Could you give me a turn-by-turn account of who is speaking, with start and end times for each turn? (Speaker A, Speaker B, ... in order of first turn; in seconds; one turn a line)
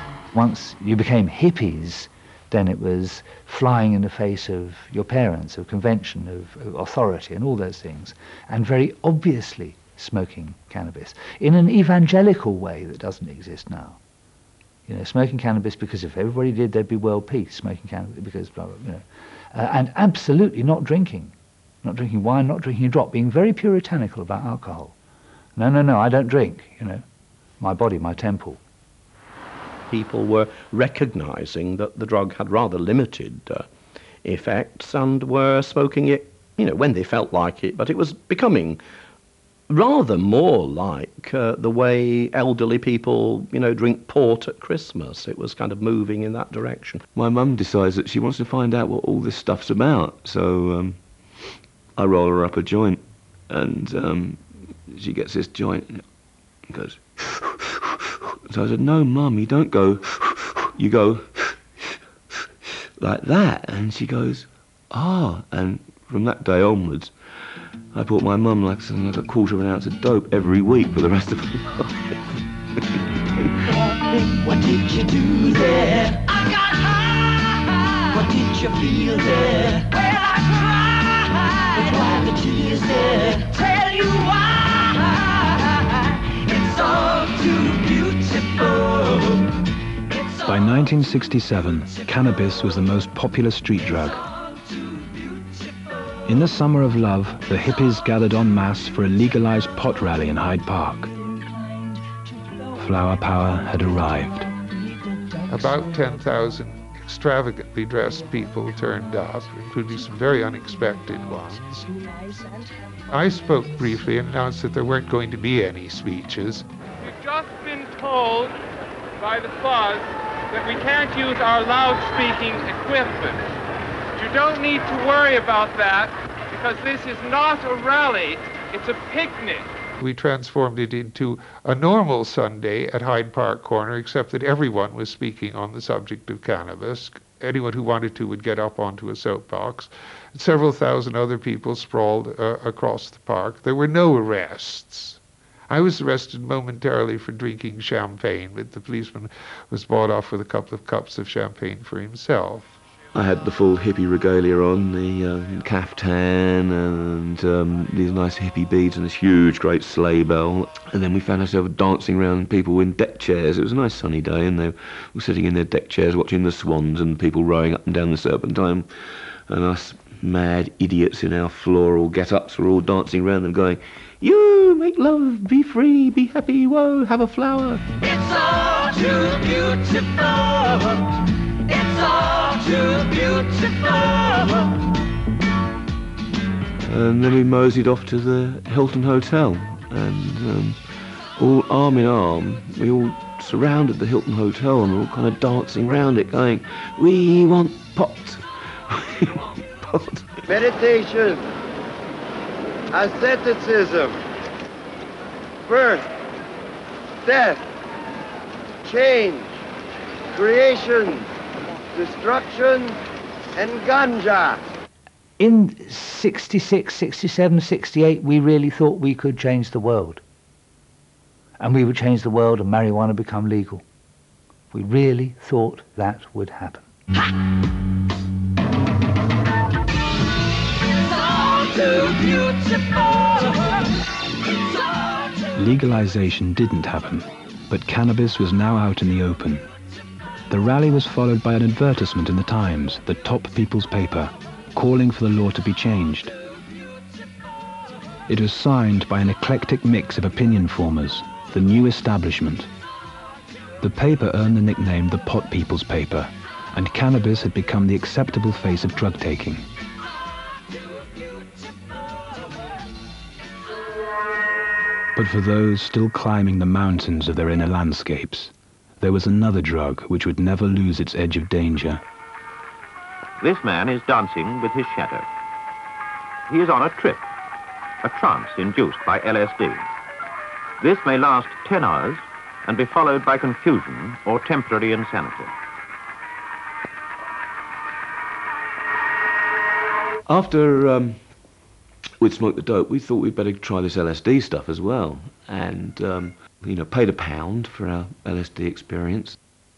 Speaker A: 0.3-14.0
Speaker A: 14.9-24.9
Speaker A: 25.5-27.0
Speaker A: 27.6-28.6
Speaker B: 29.9-33.6
Speaker B: 34.2-38.8
Speaker B: 39.7-47.0
Speaker C: 47.1-51.0
Speaker C: 52.0-56.0
Speaker C: 56.7-57.9
Speaker C: 58.5-61.6
Speaker C: 63.0-67.1
Speaker C: 67.9-72.2
Speaker D: 74.0-89.5
Speaker E: 90.4-94.2
Speaker E: 96.2-101.1
Speaker E: 102.8-104.5
Speaker F: 105.5-111.9
Speaker F: 113.1-116.6
Speaker G: 117.0-118.6
Speaker G: 119.2-123.5
Speaker G: 124.2-129.7
Speaker F: 130.0-145.2
Speaker F: 145.7-152.8
Speaker C: 153.1-168.9
Speaker C: 169.5-178.1
Speaker D: 178.2-180.4
Speaker C: 179.2-180.9
Speaker D: 181.7-182.9
Speaker C: 182.9-183.5
Speaker C: 184.0-184.5
Speaker C: 186.8-190.8
Speaker C: 191.3-200.4
Speaker H: 200.5-201.4
Speaker H: 202.9-204.2
Speaker H: 205.7-206.1
Speaker H: 207.2-207.7
Speaker H: 208.8-209.6
Speaker H: 210.3-211.3
Speaker H: 211.9-213.0
Speaker H: 213.6-214.6
Speaker A: 215.4-220.2
Speaker A: 221.6-223.8
Speaker A: 224.7-226.9
Speaker D: 231.8-232.5
Speaker E: 235.5-239.6
Speaker E: 240.5-246.3
Speaker E: 248.3-252.7
Speaker E: 253.8-259.6
Speaker E: 265.1-272.0
Speaker I: 273.4-275.3
Speaker I: 276.5-277.3
Speaker I: 278.0-279.9
Speaker I: 280.8-285.5
Speaker C: 290.3-291.2
Speaker C: 292.2-299.4